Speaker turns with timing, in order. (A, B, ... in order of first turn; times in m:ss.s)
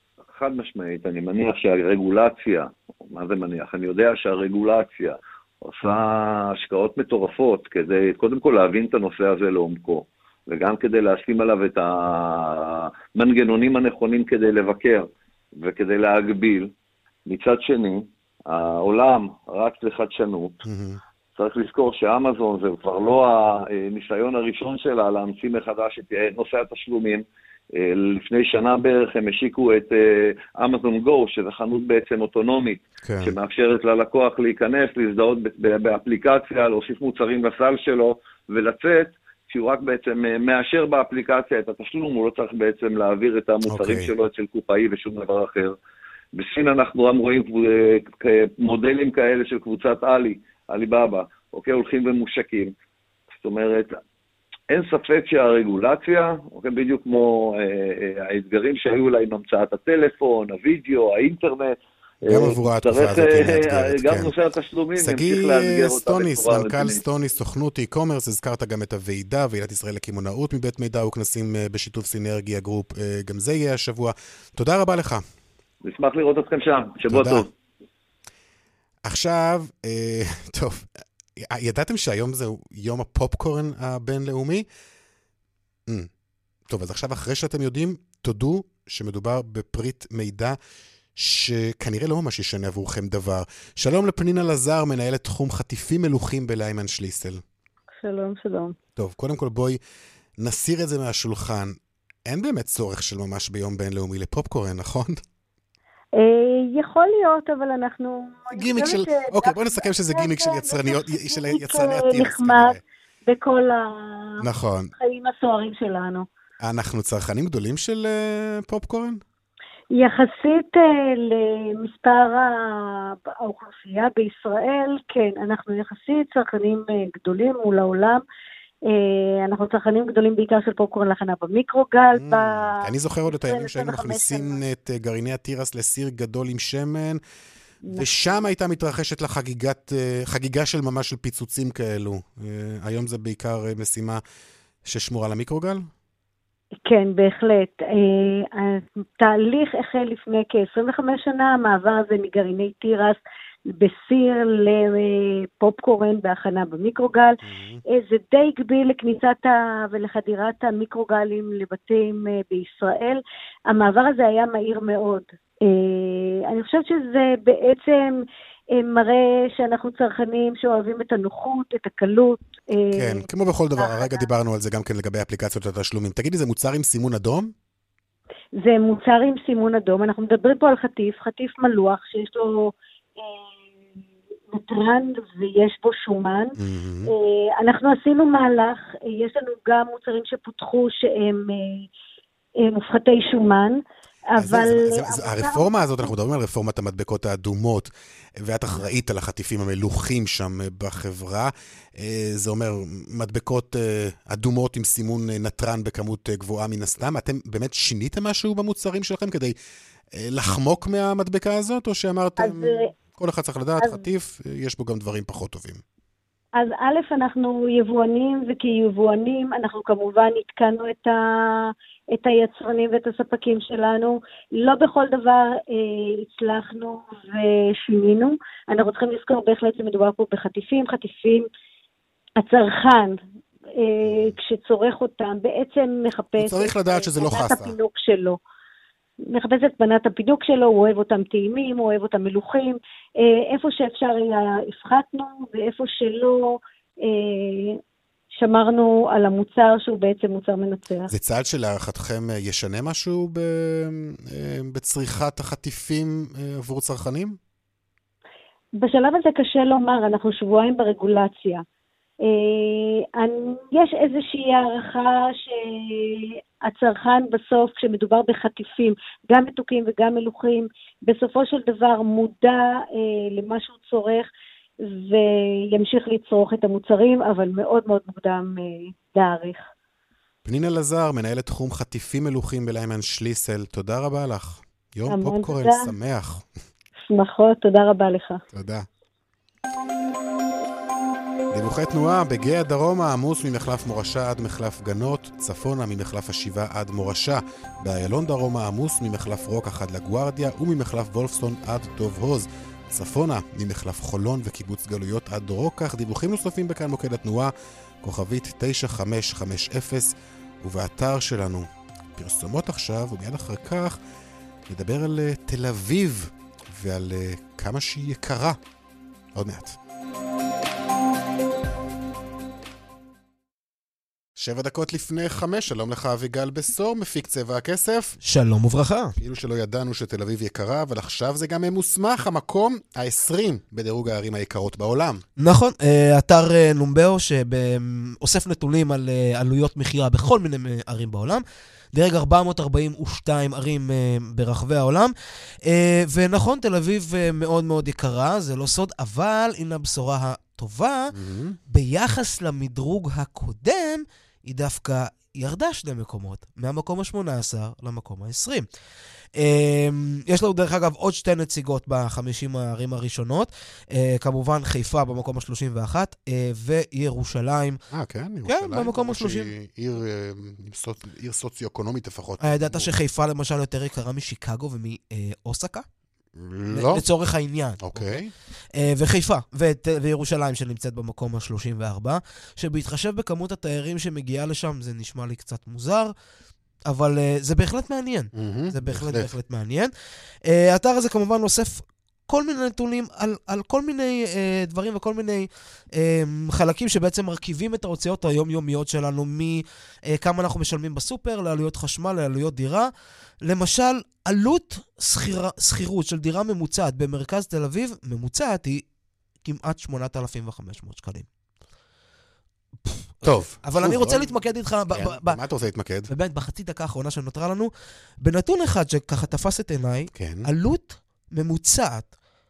0:00.3-0:16.7 A
0:17.2-0:20.6 A
0:20.6-0:21.0 B
0:21.4-0:45.8 A
0:33.0-0:33.3 B
0:43.7-0:44.1 B
0:46.3-0:52.7 A
0:53.3-0:54.0 A
0:54.7-1:07.0 A
1:02.2-1:04.3 B
1:05.0-1:15.2 B
1:15.8-1:17.5 A
1:17.0-1:17.4 B
1:19.0-1:24.7 B
1:26.7-1:30.6 B
1:31.2-1:37.4 B
1:38.0-1:38.7 C
1:39.0-1:39.8 B
1:40.4-1:45.2 B
1:46.2-1:54.4 C
1:48.6-1:52.8 B
1:54.4-1:54.9 B
1:55.0-1:56.2 C
1:56.6-1:59.2 B
1:59.9-2:08.2 C
2:08.9-2:14.6 C
2:12.2-2:17.2 B
2:17.9-2:18.5 C
2:18.0-2:24.2 B
2:24.8-2:25.9 B
2:26.8-2:48.2 C
2:37.4-2:37.8 B
2:48.7-2:53.2 C
2:53.0-2:57.5 B
2:53.8-2:54.3 C
2:58.6-3:03.5 C
3:04.5-3:06.5 C
3:06.6-3:07.1 B
3:07.0-3:11.9 C
3:12.6-3:13.8 C
3:14.3-3:16.1 C
3:14.4-3:17.9 B
3:18.4-3:29.6 B
3:30.1-3:35.8 B
3:32.4-3:32.9 C
3:33.8-3:34.1 C
3:36.6-3:51.5 C
3:52.4-3:53.2 C
3:53.8-3:58.4 C
3:56.4-3:57.7 B
3:59.3-4:07.8 C
4:08.4-4:11.1 C
4:11.1-4:17.4 B
4:18.8-4:21.6 C
4:22.2-4:34.3 C
4:34.8-4:39.6 C
4:40.4-4:46.4 B
4:45.1-4:45.9 C
4:47.1-4:48.4 C
4:48.5-4:48.9 B
4:51.5-5:14.0 B
5:14.7-5:18.6 B
5:19.3-5:19.8 B
5:24.4-5:28.2 B
5:28.2-5:29.1 D
5:29.2-5:35.2 B
5:35.4-5:45.1 D
5:45.6-5:51.1 D
5:51.1-5:51.6 B
5:51.7-5:58.7 D
5:59.4-6:07.8 D
6:07.9-6:12.9 B
6:08.4-6:09.5 D
6:12.4-6:15.9 D
6:16.4-6:17.0 B
6:16.7-6:18.1 D
6:17.8-6:18.3 B
6:18.8-6:26.1 D
6:26.9-6:29.9 D
6:28.3-6:29.3 B
6:30.5-6:42.9 D
6:43.4-6:48.8 D
6:49.4-6:51.3 D
6:52.8-6:55.4 D
6:53.2-6:56.1 B
6:56.1-6:57.7 D
6:58.2-7:02.1 D
7:00.1-7:00.5 B